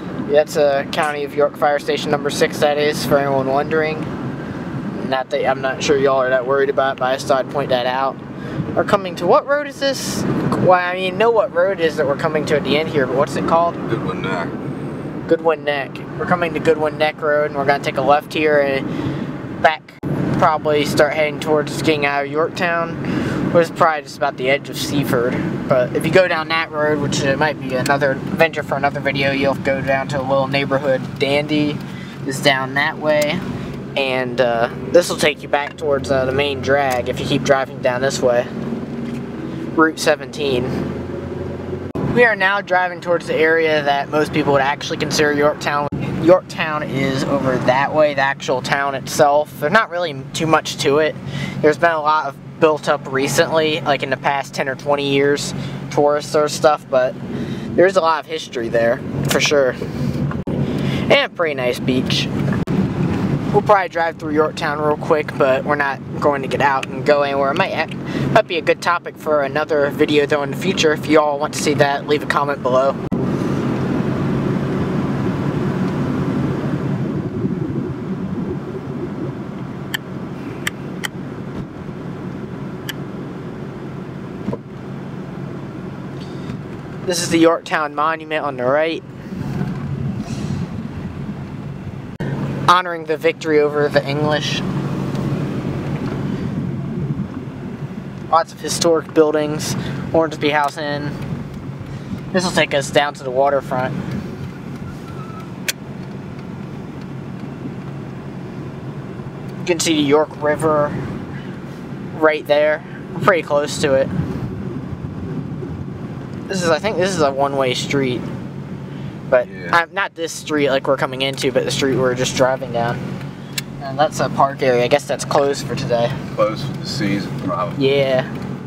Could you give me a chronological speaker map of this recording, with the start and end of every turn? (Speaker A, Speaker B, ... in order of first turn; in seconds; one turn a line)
Speaker A: 0.3-4.1
Speaker A: 4.9-8.2
Speaker A: 8.8-13.8
Speaker B: 13.8-14.7
Speaker A: 15.2-18.9
Speaker A: 19.6-33.4
Speaker A: 33.9-38.5
Speaker A: 39.7-40.8
Speaker A: 42.1-57.2
Speaker A: 57.7-59.8
Speaker A: 61.1-62.3
Speaker A: 63.5-73.0
Speaker A: 87.0-89.0
Speaker A: 92.7-94.6
Speaker A: 98.3-101.2
Speaker A: 102.3-104.0
Speaker A: 109.6-111.0
Speaker A: 112.1-114.1
Speaker A: 116.5-118.2
Speaker A: 119.3-123.0
Speaker B: 119.4-119.8
Speaker A: 123.8-126.2
Speaker B: 126.3-127.8
Speaker A: 127.8-128.3